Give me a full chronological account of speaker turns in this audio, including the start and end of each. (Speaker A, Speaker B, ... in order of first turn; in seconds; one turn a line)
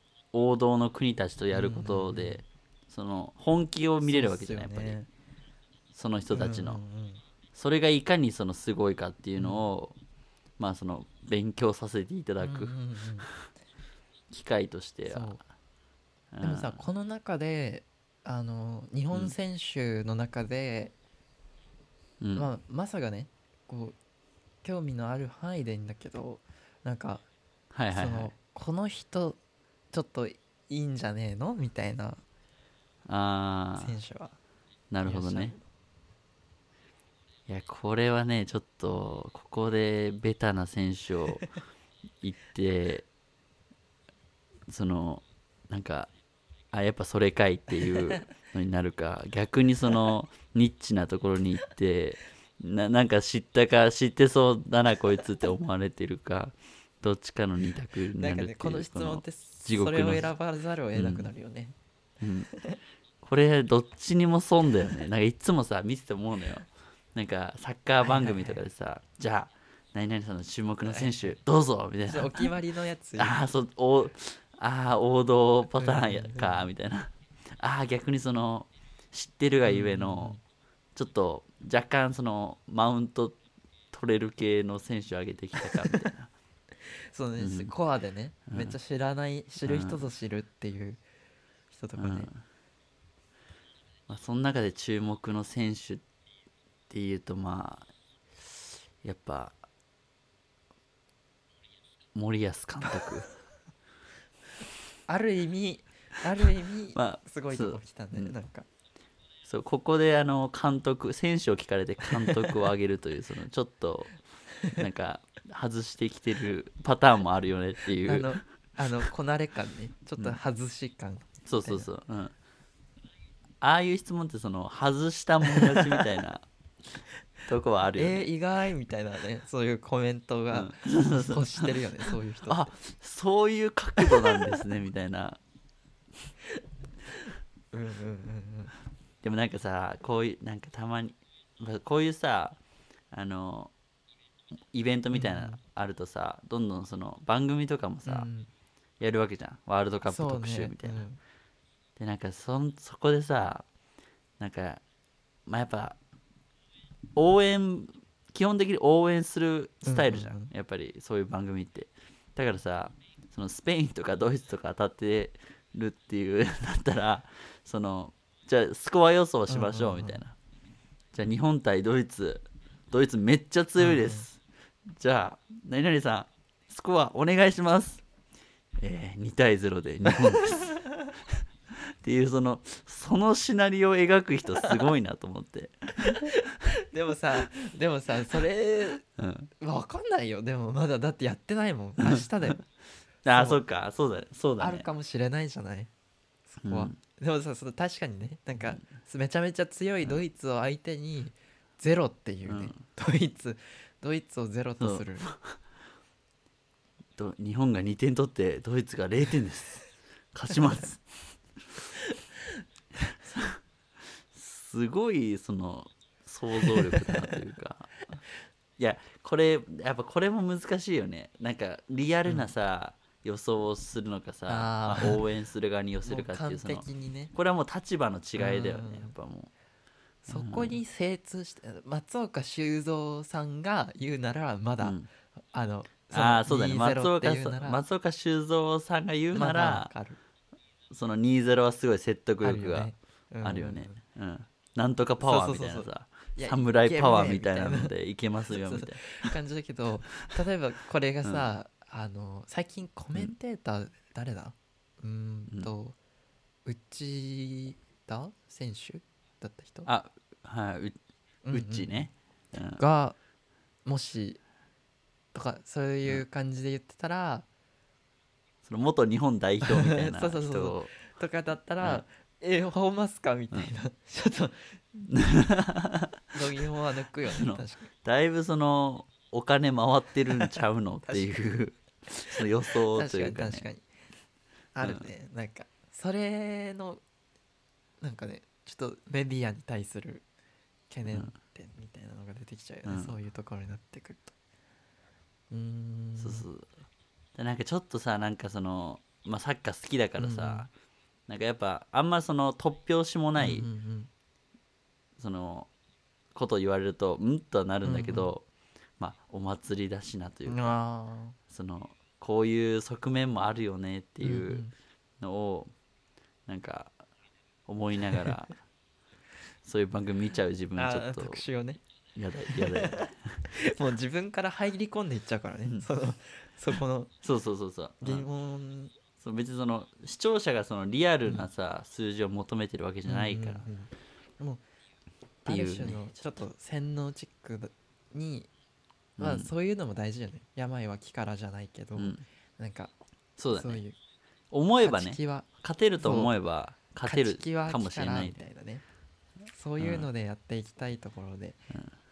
Speaker A: 0.3-5.0
Speaker B: 1.5-2.4
Speaker B: 4.0-5.1
Speaker A: 5.9-6.8
Speaker B: 6.3-7.2
Speaker A: 7.5-9.9
Speaker B: 9.4-9.6
Speaker A: 10.6-13.3
Speaker B: 12.4-13.3
Speaker A: 14.3-15.4
Speaker B: 15.1-15.4
Speaker A: 16.3-16.9
Speaker B: 16.4-20.9
Speaker A: 22.2-22.5
Speaker B: 22.4-24.0
Speaker B: 24.6-27.2
Speaker A: 27.7-28.3
Speaker B: 27.9-29.4
Speaker B: 29.9-32.2
Speaker A: 33.1-34.0
Speaker B: 33.8-34.4
Speaker A: 34.9-35.5
Speaker B: 35.0-35.7
Speaker A: 37.5-41.5
Speaker A: 42.2-43.1
Speaker A: 44.7-46.1
Speaker A: 46.7-60.3
Speaker B: 47.8-48.2
Speaker B: 58.2-61.8
Speaker A: 61.0-61.3
Speaker A: 62.2-62.5
Speaker A: 63.2-72.5
Speaker B: 68.0-68.6
Speaker B: 70.8-71.4
Speaker B: 72.1-73.4
Speaker A: 73.2-80.3
Speaker B: 75.8-76.7
Speaker B: 79.7-80.4
Speaker A: 81.0-83.4
Speaker A: 83.9-86.3
Speaker B: 85.6-86.1
Speaker B: 86.8-91.0
Speaker A: 87.4-87.7
Speaker A: 88.5-88.8
Speaker A: 89.7-90.0
Speaker B: 91.7-92.3
Speaker A: 92.0-92.4
Speaker A: 94.1-96.0
Speaker A: 96.9-97.9
Speaker A: 98.4-99.5
Speaker A: 102.2-103.3
Speaker B: 105.1-108.7
Speaker A: 107.0-108.3
Speaker A: 109.4-114.2
Speaker B: 112.1-112.5
Speaker A: 114.7-118.3
Speaker B: 118.0-121.9
Speaker A: 121.5-122.3
Speaker A: 123.6-126.5
Speaker B: 125.4-126.0
Speaker A: 127.5-128.2
Speaker B: 128.0-132.7
Speaker A: 130.5-131.7
Speaker A: 132.5-135.4
Speaker B: 134.0-134.6
Speaker B: 137.1-138.7
Speaker A: 139.2-142.6
Speaker A: 143.1-143.7
Speaker A: 144.7-148.3
Speaker B: 145.1-145.6
Speaker B: 148.1-148.5
Speaker A: 149.0-151.0
Speaker B: 150.1-151.2
Speaker A: 152.0-153.7
Speaker A: 154.4-154.8
Speaker A: 155.5-156.0
Speaker A: 157.2-170.3
Speaker B: 159.8-160.5
Speaker B: 169.5-170.2
Speaker A: 171.1-178.0
Speaker B: 173.8-174.3
Speaker A: 178.8-181.3
Speaker B: 180.7-180.9
Speaker A: 181.9-186.5
Speaker B: 186.0-189.0
Speaker A: 189.2-189.5
Speaker B: 189.6-192.6
Speaker A: 192.0-192.6
Speaker A: 193.2-194.9
Speaker B: 193.3-193.6
Speaker B: 194.6-195.9
Speaker B: 196.5-205.3
Speaker A: 196.6-197.0
Speaker A: 202.5-202.8
Speaker A: 204.8-205.6
Speaker A: 207.2-211.1
Speaker A: 213.2-213.6
Speaker A: 214.3-217.9
Speaker B: 216.7-217.4
Speaker A: 218.8-229.5
Speaker B: 224.5-225.2
Speaker B: 226.1-227.3
Speaker B: 228.4-229.1
Speaker B: 230.2-235.0
Speaker A: 230.3-230.8
Speaker A: 234.8-235.1
Speaker B: 235.5-237.8
Speaker A: 236.1-239.9
Speaker B: 239.3-240.2
Speaker A: 240.9-249.3
Speaker B: 242.4-244.0
Speaker B: 245.2-247.9
Speaker B: 248.5-256.0
Speaker B: 256.7-259.9
Speaker A: 259.9-261.0
Speaker B: 261.4-262.1
Speaker A: 261.5-262.8
Speaker B: 262.8-263.2
Speaker B: 263.9-264.4
Speaker B: 265.3-267.5
Speaker A: 268.6-270.9
Speaker B: 269.6-275.1
Speaker A: 275.1-276.2
Speaker B: 276.3-277.9
Speaker A: 277.3-283.7
Speaker B: 280.4-281.3
Speaker B: 282.1-282.4
Speaker B: 282.9-283.8
Speaker B: 284.8-287.0
Speaker B: 288.0-290.2
Speaker B: 290.9-294.4
Speaker A: 292.9-293.1
Speaker B: 295.5-296.5
Speaker A: 296.2-296.7
Speaker A: 297.4-300.7
Speaker B: 300.2-300.7
Speaker A: 301.3-303.7
Speaker B: 303.4-304.1
Speaker A: 305.2-305.7
Speaker A: 306.3-308.4
Speaker B: 307.8-308.3
Speaker A: 309.0-310.7
Speaker B: 310.5-311.4
Speaker A: 311.5-314.7
Speaker B: 314.2-314.7
Speaker A: 315.2-315.7
Speaker A: 316.5-317.0
Speaker A: 317.7-318.6
Speaker B: 318.1-318.4
Speaker A: 319.6-321.4
Speaker B: 320.8-321.8
Speaker A: 322.2-323.4
Speaker B: 322.5-327.1
Speaker A: 327.2-328.3
Speaker B: 328.0-328.9
Speaker A: 329.2-333.6
Speaker B: 333.1-334.6
Speaker A: 335.4-336.3
Speaker B: 335.4-338.5
Speaker B: 339.2-342.9
Speaker A: 339.2-339.5
Speaker A: 342.0-342.2
Speaker A: 343.4-343.8
Speaker B: 343.5-344.0
Speaker A: 344.5-348.4
Speaker B: 344.8-345.5
Speaker B: 346.0-346.3
Speaker B: 347.0-348.8
Speaker B: 349.5-351.6
Speaker A: 349.8-350.1